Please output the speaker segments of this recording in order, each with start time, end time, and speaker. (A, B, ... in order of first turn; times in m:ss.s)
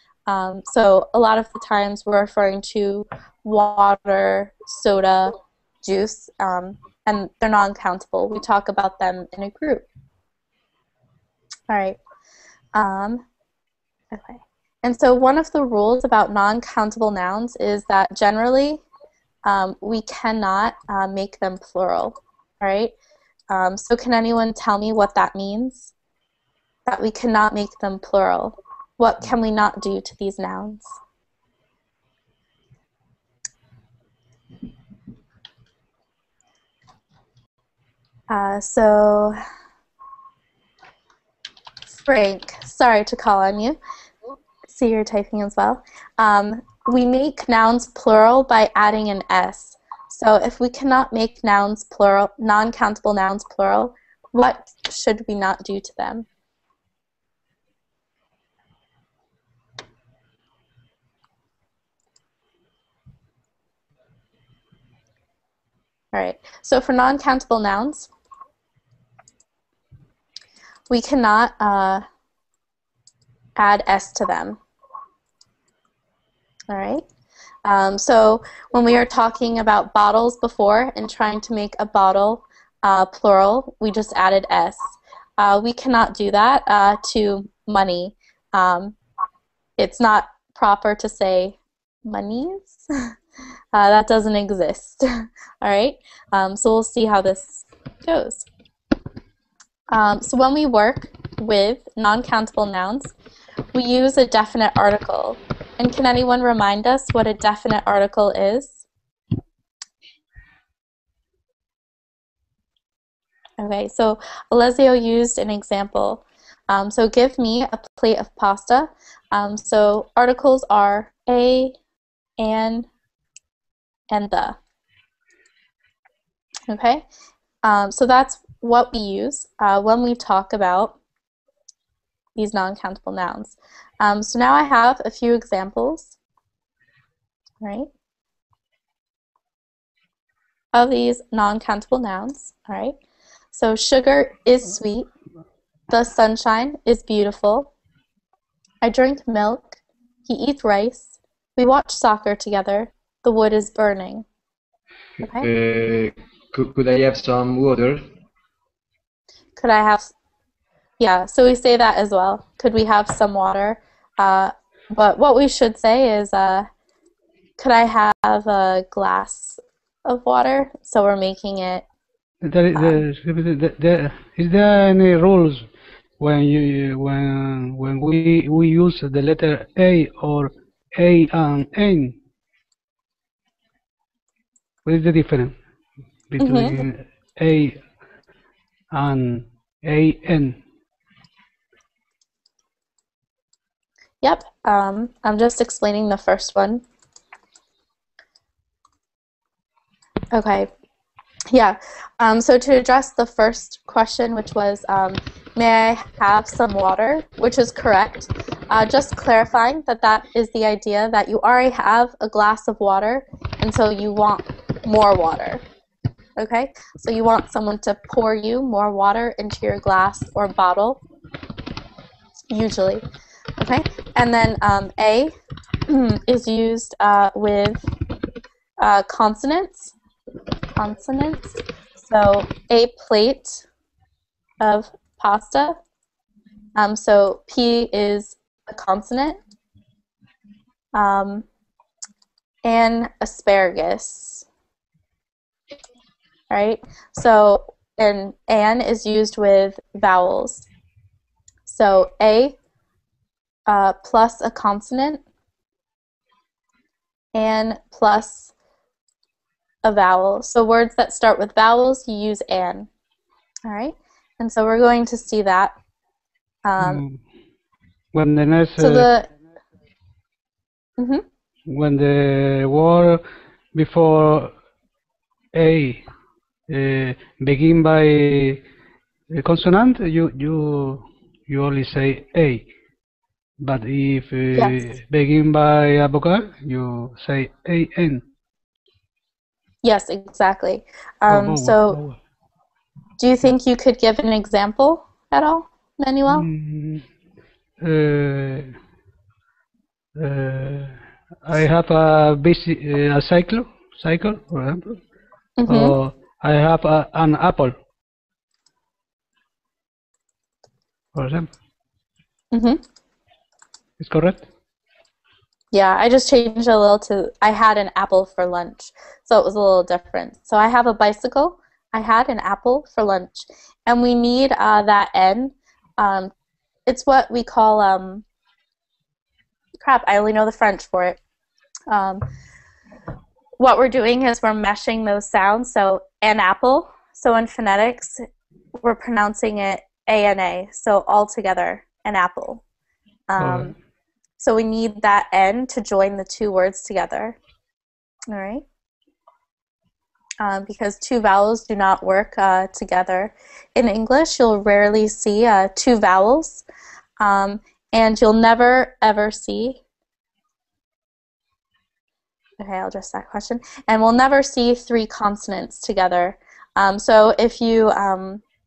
0:00.3-0:09.9 A
0:11.7-0:12.0 A
0:12.7-0:13.2 A
0:14.1-0:18.8 A
0:19.4-0:22.9 A
0:23.5-0:25.9 A
0:26.9-0:31.0 A
0:38.3-0:39.4 A
0:42.0-0:43.8 A
0:44.7-0:56.3 A
1:06.1-1:08.1 A
1:10.9-1:12.0 A
1:13.6-1:14.6 A
1:16.7-1:17.0 A
1:17.6-1:29.0 A
1:29.8-1:32.9 A
1:33.7-1:38.5 A
1:39.9-1:43.1 A
1:43.7-1:48.8 A
1:53.6-2:01.8 A
2:02.4-2:02.9 A
2:04.1-2:04.6 A
2:06.7-2:07.0 A
2:07.6-2:11.0 A
2:12.4-2:16.2 A
2:17.6-2:17.9 A
2:20.7-2:23.0 A
2:23.5-2:25.1 A
2:25.9-2:27.7 A
2:28.8-2:34.2 A
2:35.2-2:35.5 A
2:35.3-2:38.0 B
2:39.6-2:40.1 A
2:41.0-2:46.7 A
2:47.6-2:51.9 A
2:52.4-2:55.7 C
2:52.7-2:53.0 A
2:56.2-3:02.2 C
3:04.8-3:05.6 C
3:06.3-3:07.8 C
3:06.4-3:06.8 A
3:08.9-3:10.6 C
3:14.2-3:16.8 A
3:20.3-3:20.7 A
3:21.5-3:35.6 A
3:36.4-3:41.0 A
3:42.5-3:43.0 A
3:43.6-3:45.3 A
3:45.9-3:47.9 A
3:48.8-3:49.9 A
3:50.8-3:53.6 A
3:54.6-3:55.8 A
3:56.8-3:59.4 A
4:00.9-4:01.4 A
4:02.6-4:04.5 A
4:06.5-4:10.7 A
4:11.7-4:12.6 A
4:13.7-4:15.2 A
4:17.3-4:18.5 A
4:19.8-4:22.9 A
4:23.7-4:25.7 A
4:26.6-4:27.0 A
4:26.8-4:27.2 C
4:28.1-4:29.1 C
4:28.8-4:29.3 A
4:31.0-4:31.2 A
4:31.7-4:33.2 C
4:33.7-4:34.5 C
4:35.5-4:36.0 C
4:36.7-4:38.6 C
4:39.3-4:42.7 C
4:43.6-4:48.2 C
4:44.6-4:44.8 A
4:49.8-4:52.0 A
4:51.3-4:52.2 C
4:53.2-4:56.5 A
4:56.3-4:57.1 C
4:57.8-4:58.8 C
5:00.2-5:05.0 C
5:05.6-5:06.0 A
5:05.6-5:07.8 C
5:11.1-5:11.5 C
5:12.5-5:12.8 A
5:14.0-5:14.4 C
5:15.7-5:26.3 A
5:26.9-5:28.2 A
5:29.8-5:31.2 A
5:31.9-5:32.2 A
5:33.6-5:38.2 A
5:38.8-5:42.6 A
5:43.3-5:43.7 A
5:43.4-5:43.7 C
5:44.4-5:47.4 A
5:48.3-5:48.6 A
5:50.4-5:56.6 A
5:57.2-5:59.8 A
6:02.6-6:08.4 A